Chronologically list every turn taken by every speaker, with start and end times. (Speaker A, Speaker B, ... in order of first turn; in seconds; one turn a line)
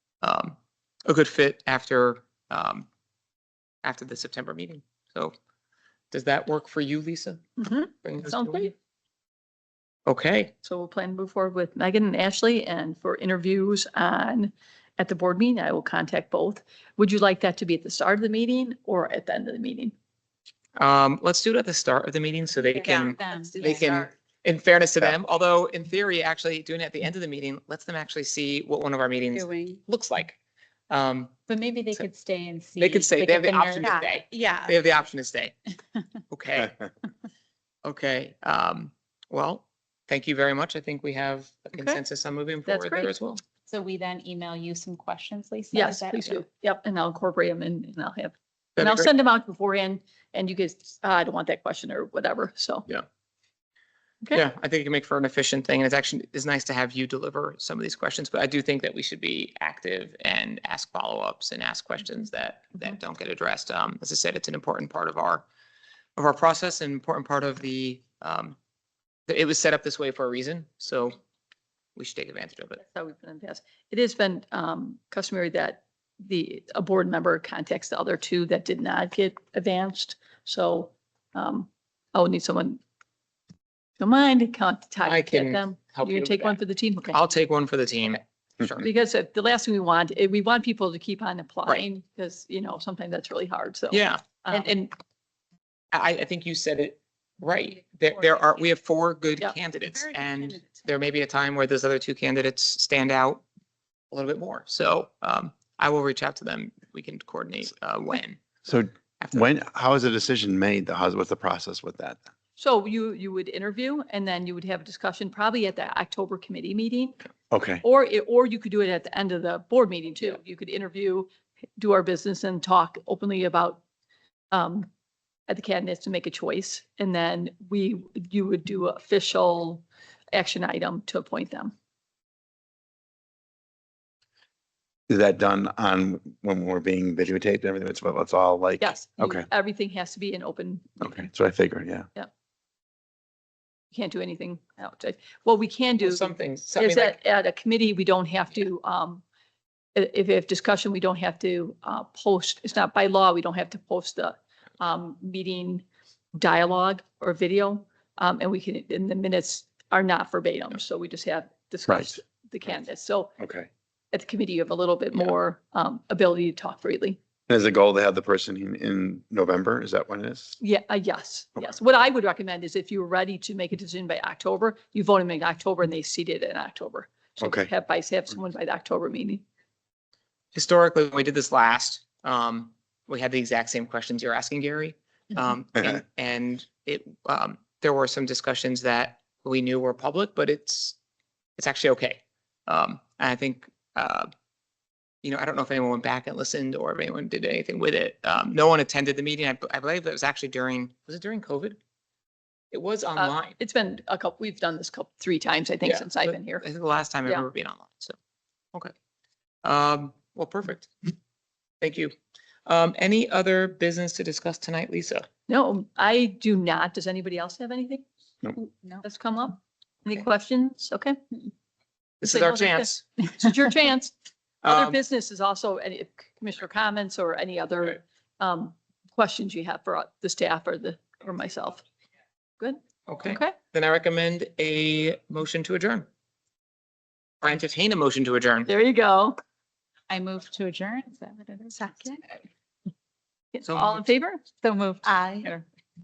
Speaker A: 0.2-2.9
Speaker A: 3.8-5.4
Speaker A: 6.1-7.4
Speaker B: 7.6-8.7
Speaker A: 8.0-8.7
Speaker A: 10.1-10.5
Speaker B: 10.6-19.9
Speaker A: 20.8-30.4
Speaker C: 22.6-23.9
Speaker B: 22.8-24.1
Speaker C: 29.3-29.8
Speaker A: 30.9-31.3
Speaker C: 31.5-34.8
Speaker A: 32.8-35.5
Speaker A: 36.3-36.8
Speaker A: 37.8-43.4
Speaker B: 41.8-42.0
Speaker B: 42.7-43.1
Speaker C: 43.7-46.4
Speaker B: 45.7-52.9
Speaker A: 48.8-49.1
Speaker A: 54.3-65.5
Speaker A: 66.2-68.6
Speaker A: 69.3-71.2
Speaker A: 72.0-72.8
Speaker B: 72.8-82.8
Speaker B: 84.0-87.2
Speaker A: 85.0-86.6
Speaker A: 87.1-88.9
Speaker B: 88.8-94.7
Speaker A: 93.9-94.9
Speaker A: 95.9-103.4
Speaker C: 100.0-100.6
Speaker A: 104.1-108.4
Speaker D: 108.7-112.2
Speaker A: 109.2-109.5
Speaker B: 112.6-117.2
Speaker D: 117.5-117.8
Speaker B: 117.8-123.8
Speaker B: 124.5-124.9
Speaker B: 125.5-131.7
Speaker D: 135.1-139.5
Speaker B: 138.8-141.0
Speaker D: 141.0-142.1
Speaker B: 143.9-149.2
Speaker A: 146.0-147.2
Speaker B: 149.9-163.3
Speaker D: 161.9-162.2
Speaker D: 163.4-163.7
Speaker B: 164.1-167.2
Speaker D: 167.5-170.6
Speaker B: 170.6-179.4
Speaker D: 177.4-177.7
Speaker A: 180.5-191.0
Speaker A: 191.6-194.3
Speaker A: 195.2-201.8
Speaker A: 202.7-203.6
Speaker B: 203.2-206.7
Speaker A: 205.8-208.2
Speaker A: 209.6-210.9
Speaker A: 211.8-212.1
Speaker A: 212.7-215.3
Speaker B: 215.5-218.1
Speaker B: 219.0-221.2
Speaker A: 222.2-223.0
Speaker B: 222.2-224.1
Speaker A: 224.6-225.0
Speaker B: 224.7-231.8
Speaker B: 232.6-233.6
Speaker A: 233.1-236.1
Speaker A: 237.4-238.7
Speaker B: 238.7-239.4
Speaker C: 240.1-242.2
Speaker B: 243.5-244.5
Speaker A: 243.7-244.1
Speaker C: 244.6-245.6